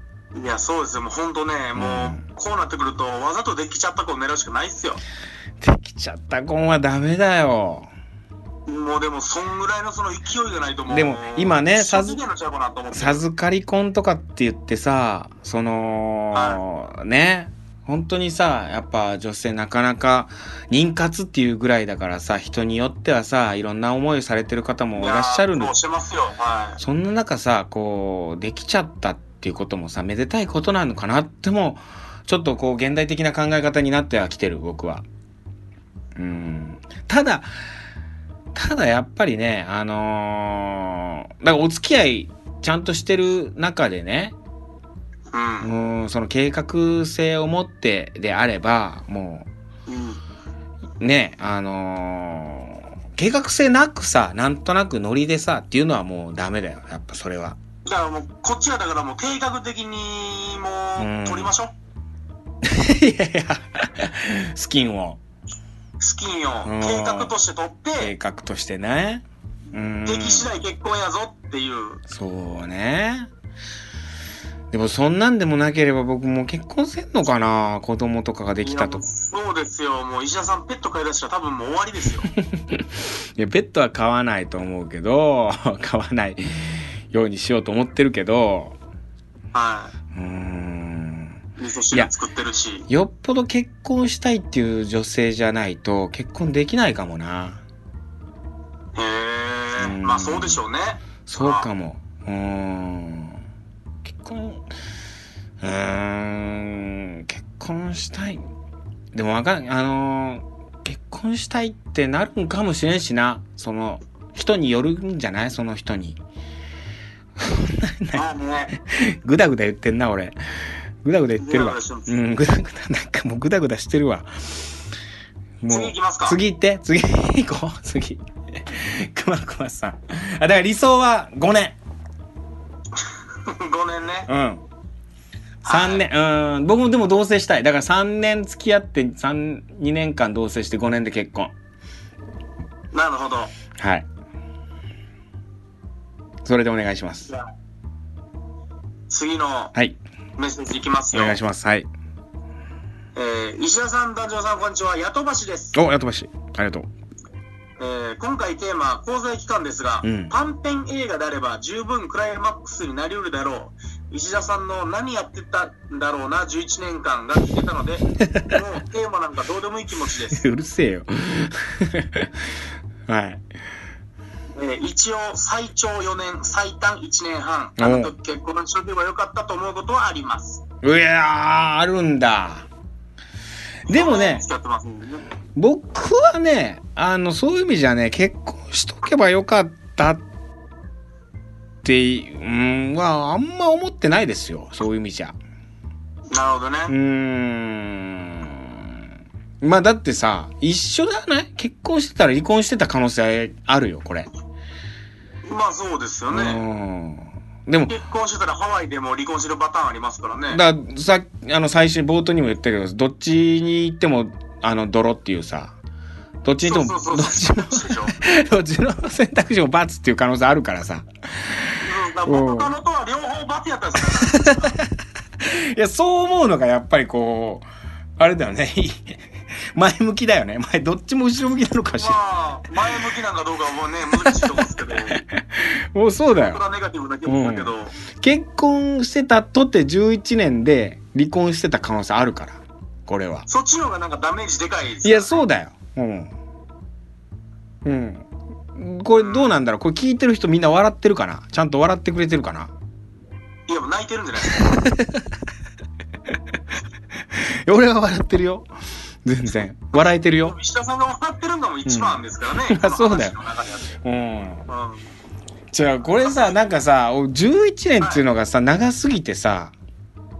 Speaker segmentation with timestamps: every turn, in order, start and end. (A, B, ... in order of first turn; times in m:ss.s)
0:00.3-0:05.0 A
0:01.8-0:02.2 B
0:05.6-0:07.9 B
0:08.6-0:13.2 A
0:10.9-0:12.2 B
0:12.9-0:25.7 B
0:16.3-0:16.6 A
0:25.0-0:26.8 A
0:26.8-0:35.0 B
0:36.2-0:37.5 B
0:38.5-0:44.4 B
0:45.3-0:45.7 A
0:45.6-0:49.5 B
0:49.9-0:50.2 A
0:51.0-0:57.6 B
0:57.8-1:01.7 A
1:01.0-1:01.5 B
1:02.6-1:05.2 B
1:06.0-1:08.1 A
1:06.6-1:07.3 B
1:08.0-1:10.5 B
1:10.0-1:12.0 A
1:12.1-1:13.3 B
1:14.7-1:19.1 B
1:18.6-1:22.3 A
1:22.4-1:22.8 B
1:23.4-1:28.8 B
1:29.5-1:29.9 A
1:30.1-1:31.4 B
1:31.6-1:32.9 A
1:32.9-1:37.6 B
1:38.9-1:41.7 A
1:39.8-1:40.6 B
1:41.2-1:43.4 B
1:44.0-1:44.6 B
1:45.6-1:48.5 B
1:49.1-1:56.2 B
1:57.4-2:00.4 B
1:58.1-1:58.7 A
2:01.0-2:04.3 B
2:01.4-2:02.1 A
2:05.6-2:11.8 B
2:05.7-2:06.4 A
2:13.0-2:14.3 A
2:14.3-2:14.6 B
2:15.6-2:16.0 A
2:15.6-2:21.5 B
2:22.9-2:23.5 A
2:23.7-2:24.1 B
2:26.4-2:27.3 B
2:29.1-2:29.7 A
2:30.4-2:31.4 A
2:31.1-2:31.9 B
2:33.1-2:35.8 A
2:35.7-2:36.9 B
2:37.8-2:50.4 A
2:40.0-2:40.3 B
2:48.2-2:48.5 B
2:50.3-2:52.3 B
2:53.1-2:53.4 B
2:54.5-3:00.6 A
2:57.8-2:58.1 B
3:00.8-3:02.6 B
3:03.9-3:04.4 B
3:03.9-3:05.2 A
3:05.5-3:10.2 B
3:11.8-3:15.4 B
3:16.3-3:16.9 A
3:16.9-3:18.8 B
3:19.6-3:24.3 B
3:25.4-3:26.6 A
3:26.3-3:27.9 B
3:27.9-3:30.6 A
3:30.5-3:35.8 B
3:36.4-3:42.7 B
3:36.6-3:38.1 A
3:41.8-3:44.7 A
3:44.0-3:47.6 B
3:48.2-3:49.2 B
3:49.7-3:52.2 B
3:51.9-3:55.2 A
3:54.2-3:56.6 B
3:56.3-3:57.9 A
3:57.2-4:03.5 B
4:03.5-4:05.4 A
4:05.0-4:06.3 B
4:07.8-4:12.7 B
4:09.2-4:09.5 A
4:13.7-4:14.8 A
4:14.5-4:15.2 B
4:17.3-4:18.7 B
4:19.2-4:20.6 B
4:20.0-4:24.0 A
4:21.8-4:23.4 B
4:24.0-4:24.7 B
4:24.7-4:25.1 A
4:25.7-4:29.7 B
4:26.2-4:26.6 A